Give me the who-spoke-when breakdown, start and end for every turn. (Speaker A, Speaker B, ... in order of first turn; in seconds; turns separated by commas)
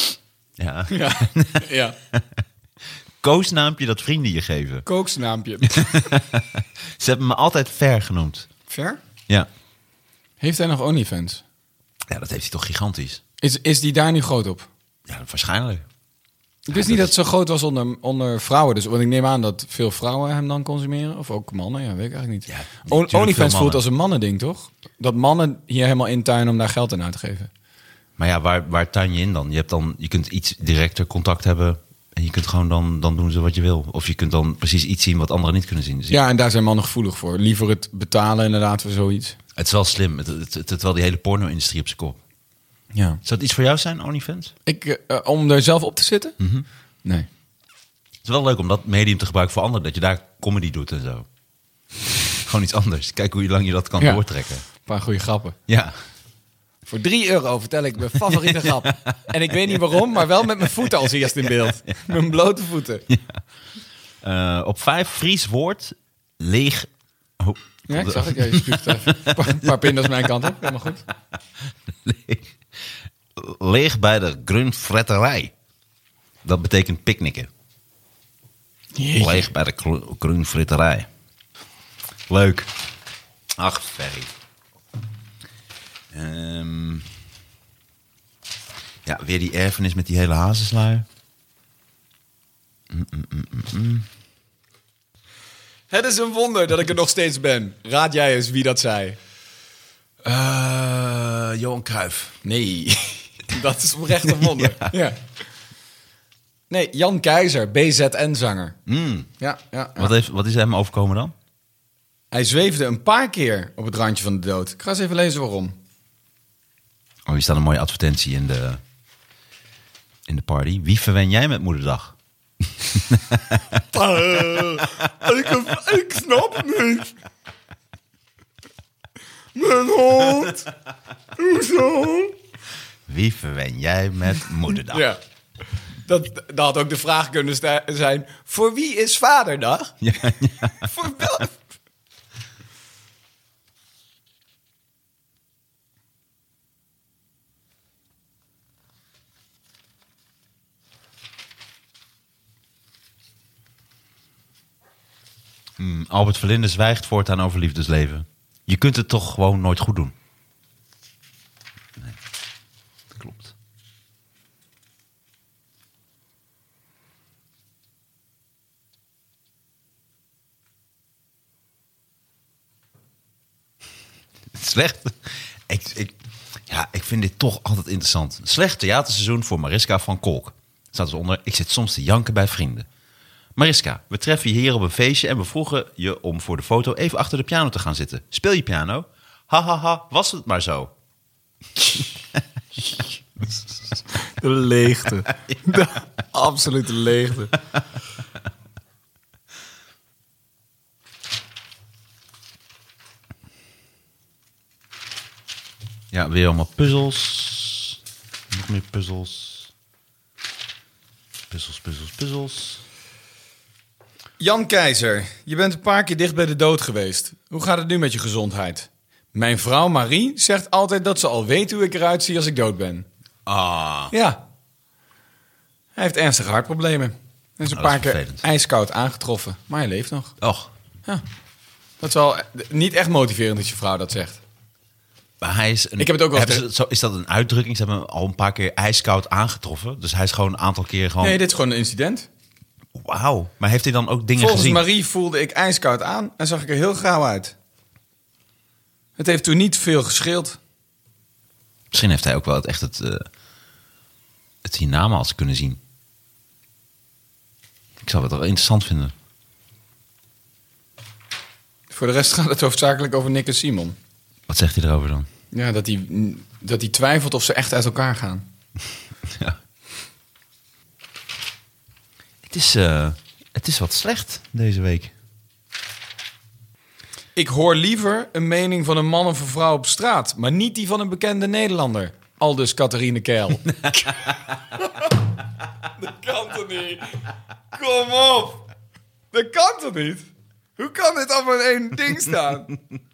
Speaker A: 0.6-2.4, Speaker B: 0.9-2.0, Speaker A: 3.2-4.8, Speaker B: 4.8-6.0, Speaker A: 5.6-8.5, Speaker B: 8.7-9.0, Speaker B: 10.4-11.4, Speaker A: 12.1-13.2, Speaker B: 13.4-14.7, Speaker A: 15.1-15.8, Speaker B: 16.7-27.5, Speaker A: 16.7-17.1, Speaker A: 22.5-23.8, Speaker A: 28.2-36.2, Speaker B: 36.1-39.4, Speaker A: 39.5-42.2, Speaker B: 42.9-43.2, Speaker A: 43.2-44.5, Speaker B: 44.6-46.4, Speaker A: 46.4-46.6, Speaker A: 48.2-51.2, Speaker A: 52.4-54.6, Speaker B: 54.8-55.6, Speaker A: 55.7-56.0, Speaker B: 56.9-63.0, Speaker A: 58.2-59.2, Speaker A: 61.2-61.7, Speaker A: 63.1-63.4, Speaker A: 64.2-69.9, Speaker B: 67.9-71.0, Speaker A: 71.9-72.6, Speaker A: 73.3-75.5, Speaker A: 76.4-77.5, Speaker B: 78.9-79.5, Speaker A: 79.2-81.1, Speaker A: 82.3-82.7, Speaker A: 83.6-84.3, Speaker A: 86.1-87.1, Speaker A: 89.0-91.0, Speaker A: 92.9-94.1, Speaker B: 95.9-99.2, Speaker A: 100.2-102.4, Speaker B: 102.4-105.2, Speaker A: 104.2-105.0, Speaker B: 106.7-108.8, Speaker A: 108.8-109.3, Speaker B: 109.4-110.1, Speaker A: 110.0-111.3, Speaker B: 112.3-115.7, Speaker A: 117.2-118.8, Speaker A: 120.3-122.2, Speaker A: 122.8-123.8, Speaker B: 123.9-127.2, Speaker B: 129.5-130.7, Speaker B: 131.3-132.3, Speaker A: 133.1-135.1, Speaker B: 134.9-135.2, Speaker B: 136.0-140.0, Speaker A: 140.0-140.9, Speaker B: 140.8-141.6, Speaker A: 155.8-160.1, Speaker A: 163.1-163.5, Speaker A: 174.5-176.2, Speaker A: 176.7-182.9, Speaker A: 183.6-190.9, Speaker A: 191.9-192.4, Speaker B: 194.1-197.5, Speaker A: 195.5-195.9, Speaker A: 206.1-208.0, Speaker A: 208.5-209.7, Speaker A: 211.5-212.8, Speaker B: 214.4-223.1, Speaker A: 223.4-224.1, Speaker B: 224.1-224.4, Speaker B: 225.9-230.4, Speaker A: 227.7-228.4, Speaker A: 230.4-230.7, Speaker B: 232.0-234.4, Speaker A: 235.4-241.4, Speaker B: 236.0-236.7, Speaker B: 241.2-242.3, Speaker A: 242.9-244.8, Speaker B: 244.3-247.5, Speaker B: 249.2-250.6, Speaker A: 251.9-253.2, Speaker A: 254.6-255.8, Speaker A: 258.0-259.1, Speaker B: 261.9-264.0, Speaker A: 264.5-265.3, Speaker B: 265.5-268.4, Speaker A: 269.2-269.6, Speaker A: 272.4-275.1, Speaker B: 277.4-285.1, Speaker A: 283.8-284.1, Speaker B: 286.0-288.6, Speaker B: 289.3-292.7